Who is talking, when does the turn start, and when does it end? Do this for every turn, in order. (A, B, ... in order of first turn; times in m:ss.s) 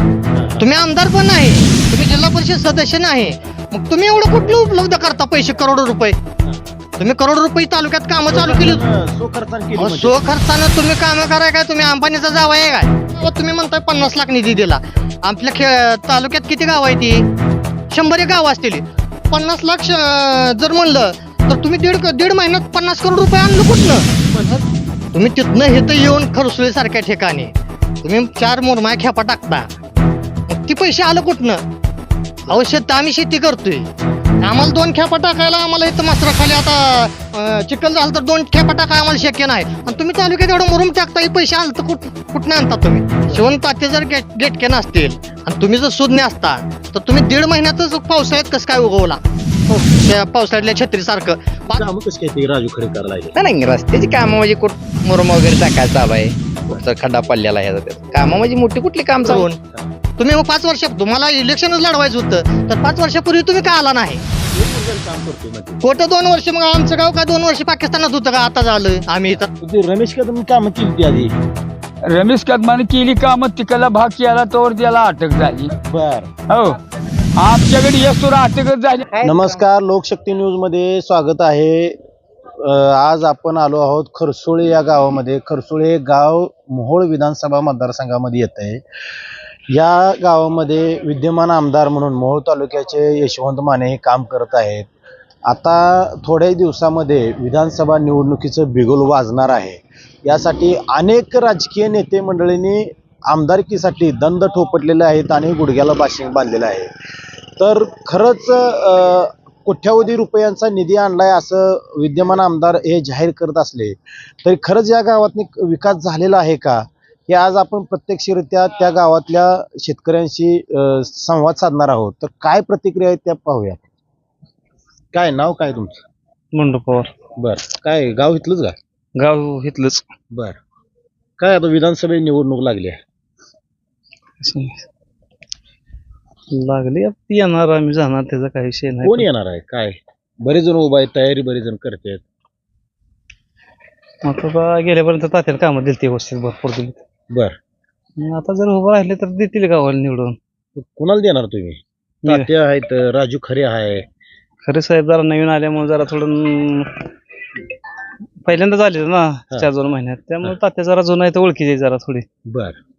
0:00.3-0:00.7 A
0:00.6-0:06.2 B
0:07.0-0:08.8 B
0:08.3-0:10.3 A
0:09.8-0:17.2 B
0:17.9-0:24.6 B
0:24.1-0:24.6 A
0:25.1-0:27.5 B
0:28.0-0:29.7 B
0:30.5-0:31.6 B
0:32.5-0:33.9 B
0:34.4-0:49.2 B
0:49.7-0:50.0 A
0:49.9-0:51.8 B
0:51.7-0:53.3 A
0:53.4-0:59.5 C
0:59.2-0:59.6 B
0:59.6-0:59.9 A
1:00.2-1:04.2 B
1:04.5-1:05.8 A
1:05.8-1:09.5 B
1:09.6-1:11.4 A
1:12.0-1:15.7 D
1:15.9-1:16.3 A
1:16.5-1:16.8 D
1:17.4-1:19.1 D
1:19.2-1:22.0 A
1:22.6-1:28.8 A
1:29.7-1:34.9 A
1:35.4-1:46.9 A
1:47.6-2:03.9 A
2:05.1-2:06.0 A
2:06.5-2:07.1 E
2:07.4-2:08.8 A
2:09.2-2:10.1 E
2:10.3-2:10.6 A
2:11.4-2:13.0 A
2:14.4-2:14.8 E
2:16.5-2:19.3 E
2:19.0-2:22.2 A
2:24.2-2:27.0 E
2:27.3-2:27.6 A
2:28.2-2:30.4 E
2:30.8-2:34.1 A
2:32.2-2:32.5 E
2:34.6-2:37.1 E
2:38.4-2:42.3 E
2:42.5-2:42.8 A